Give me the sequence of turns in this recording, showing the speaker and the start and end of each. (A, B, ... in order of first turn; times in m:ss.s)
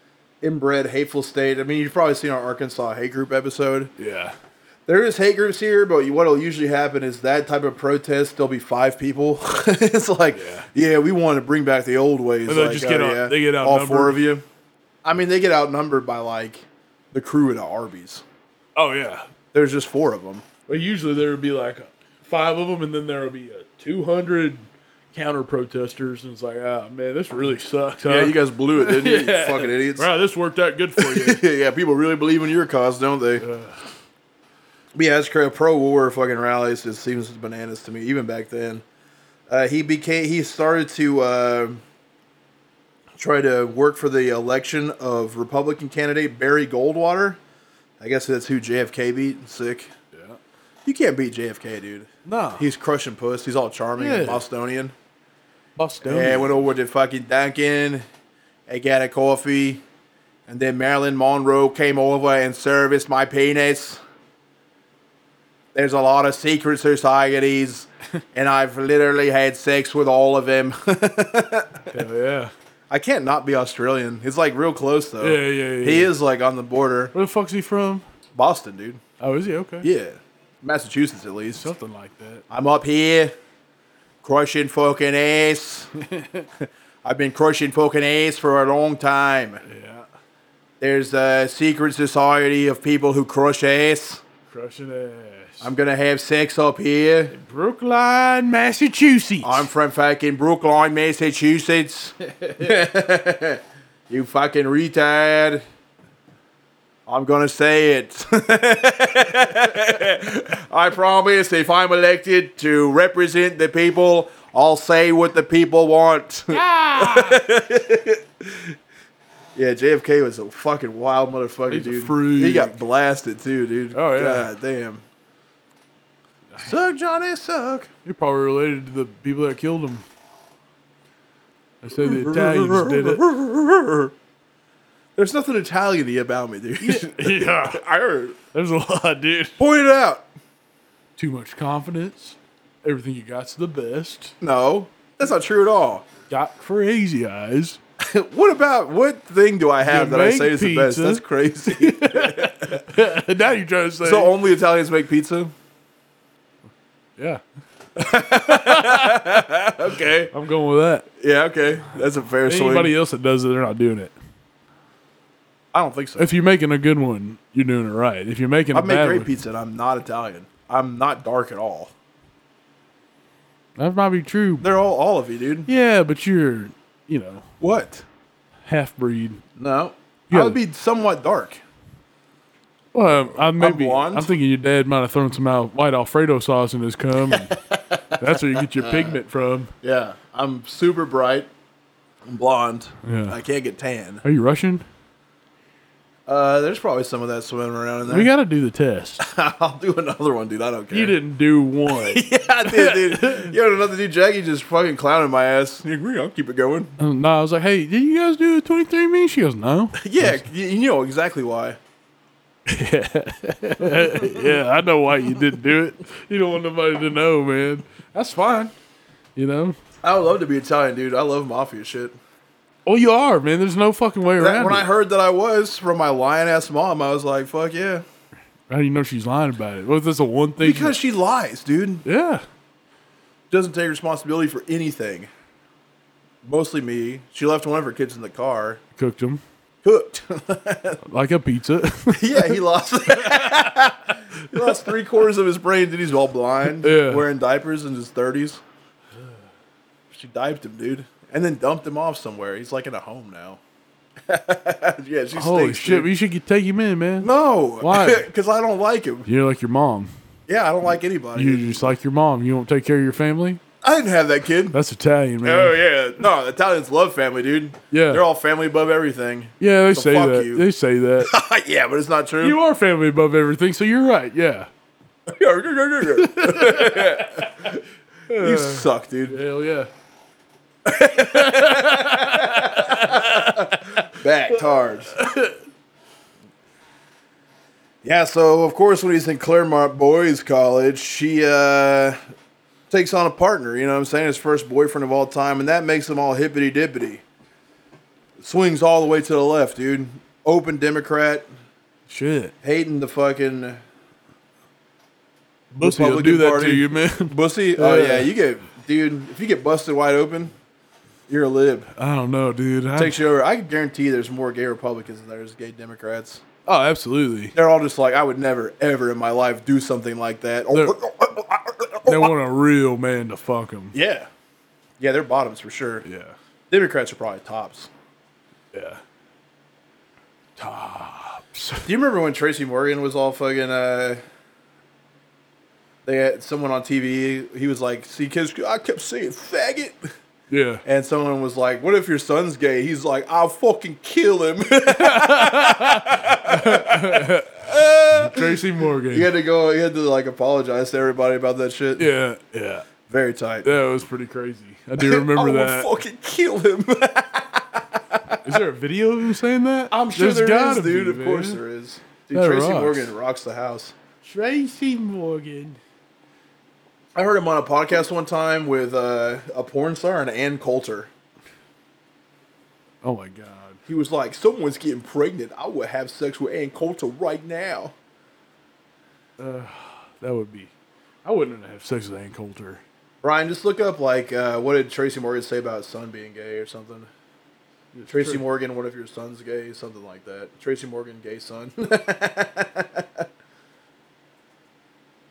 0:00.4-0:03.9 A
0:04.0-0:04.4 B
0:04.9-0:14.4 A
0:10.4-0:10.7 B
0:12.5-0:14.2 B
0:15.0-0:18.2 A
0:18.8-0:19.3 B
0:19.5-0:20.4 A
0:20.7-0:24.6 B
0:25.1-0:31.4 B
0:28.1-0:30.1 A
0:31.0-0:33.4 A
0:33.4-0:33.8 B
0:35.0-0:38.8 A
0:39.5-0:41.8 A
0:43.2-0:47.4 A
0:48.0-0:49.9 A
0:50.1-0:50.4 B
0:50.9-0:54.9 A
0:52.2-0:52.6 B
0:54.0-0:54.4 B
0:55.8-0:56.6 B
0:56.0-0:58.0 A
0:58.7-0:59.8 A
1:00.5-1:04.0 A
1:05.8-1:12.0 A
1:11.9-1:12.5 B
1:12.9-1:17.1 A
1:15.2-1:16.1 B
1:17.1-1:18.0 B
1:18.4-1:19.0 A
1:19.2-1:19.9 B
1:19.8-1:21.7 A
1:21.6-1:22.4 B
1:22.5-1:23.3 A
1:24.2-1:25.9 A
1:26.0-1:26.5 B
1:26.6-1:29.6 A
1:29.6-1:30.1 B
1:30.8-1:34.2 A
1:34.5-1:35.7 B
1:35.6-1:37.3 A
1:37.3-1:39.7 B
1:39.4-1:45.6 A
1:47.1-1:58.8 A
1:56.5-1:57.4 B
1:59.6-2:05.0 A
2:01.7-2:02.8 B
2:03.9-2:04.5 B
2:06.6-2:07.9 A
2:08.0-2:10.0 B
2:11.8-2:13.2 B
2:11.9-2:14.1 A
2:15.2-2:18.4 A
2:16.8-2:17.8 B
2:18.5-2:19.6 B
2:19.6-2:20.3 A
2:21.2-2:24.4 B
2:24.4-2:26.0 A
2:26.3-2:27.8 B
2:28.0-2:32.9 A
2:29.9-2:34.3 B
2:34.0-2:35.5 A
2:37.2-2:37.4 B
2:38.0-2:40.3 A
2:38.4-2:41.1 B
2:41.2-2:42.9 A
2:42.4-2:44.1 B
2:45.7-2:46.3 A
2:46.2-2:49.3 B
2:48.7-2:51.9 A
2:53.8-2:54.7 B
2:54.6-2:55.7 A
2:55.7-2:57.5 B
2:57.6-2:58.0 A
2:58.6-2:59.4 B
2:59.6-3:01.6 A
3:00.3-3:00.6 B
3:02.9-3:07.6 B
3:03.3-3:04.3 A
3:07.3-3:09.2 A
3:08.2-3:09.7 B
3:09.8-3:11.5 A
3:12.3-3:14.2 A
3:13.0-3:13.4 B
3:14.2-3:14.8 B
3:16.3-3:18.3 A
3:18.0-3:19.2 B
3:19.2-3:21.2 A
3:20.9-3:23.5 B
3:21.9-3:27.0 A
3:27.0-3:30.5 B
3:30.0-3:31.8 A
3:32.7-3:38.7 B
3:34.0-3:34.6 A
3:39.4-3:39.8 B
3:40.0-3:42.2 A
3:42.8-3:44.9 B
3:44.4-3:48.0 A
3:48.7-3:51.0 B
3:50.6-3:52.0 A
3:52.0-3:52.4 B
3:53.5-3:55.3 A
3:56.4-3:58.8 A
3:59.0-3:59.4 B
3:59.8-4:01.0 A
4:01.0-4:02.6 B
4:02.1-4:08.6 A
4:03.2-4:03.6 B
4:06.7-4:07.3 B
4:10.1-4:13.6 A
4:14.3-4:16.1 A
4:15.3-4:18.3 B
4:17.2-4:19.3 A
4:19.3-4:20.1 B
4:20.5-4:21.9 A
4:21.4-4:23.6 B
4:23.8-4:24.8 A
4:24.7-4:25.8 B
4:25.4-4:30.7 A
4:27.9-4:28.2 B
4:29.6-4:31.3 B
4:31.2-4:32.6 A
4:32.4-4:34.7 B
4:35.3-4:37.8 A
4:36.0-4:37.7 B
4:38.3-4:39.9 B
4:38.4-4:39.4 A
4:40.8-4:45.2 A
4:41.2-4:45.6 B
4:48.0-4:52.2 A
4:52.9-4:57.2 A
4:58.4-5:01.5 A
5:02.1-5:02.5 B
5:02.6-5:03.8 A
5:05.7-5:08.3 B
5:05.8-5:10.5 A
5:11.3-5:11.9 A
5:12.0-5:13.2 B
5:13.0-5:16.4 A
5:16.7-5:17.5 B
5:17.6-5:22.4 A
5:20.7-5:21.0 B
5:22.1-5:24.0 B
5:23.9-5:24.3 A
5:25.0-5:26.0 A
5:26.0-5:26.4 B
5:26.7-5:27.9 A
5:28.7-5:29.0 B
5:30.6-5:31.9 B
5:31.8-5:34.2 A
5:36.0-5:40.1 A
5:40.5-5:40.8 B
5:40.8-5:52.1 A
5:44.9-5:49.3 B
5:52.0-5:52.9 B
5:53.1-5:53.7 A
5:53.6-5:55.9 B
5:55.0-5:58.5 A
5:58.4-6:01.6 B
5:59.9-6:04.0 A
6:02.3-6:03.1 B
6:04.2-6:05.8 B
6:07.2-6:11.1 A
6:13.0-6:13.8 B
6:13.9-6:17.9 A
6:19.4-6:20.7 B
6:21.2-6:22.8 B
6:23.2-6:27.1 A
6:27.9-6:28.4 B
6:28.1-6:33.3 A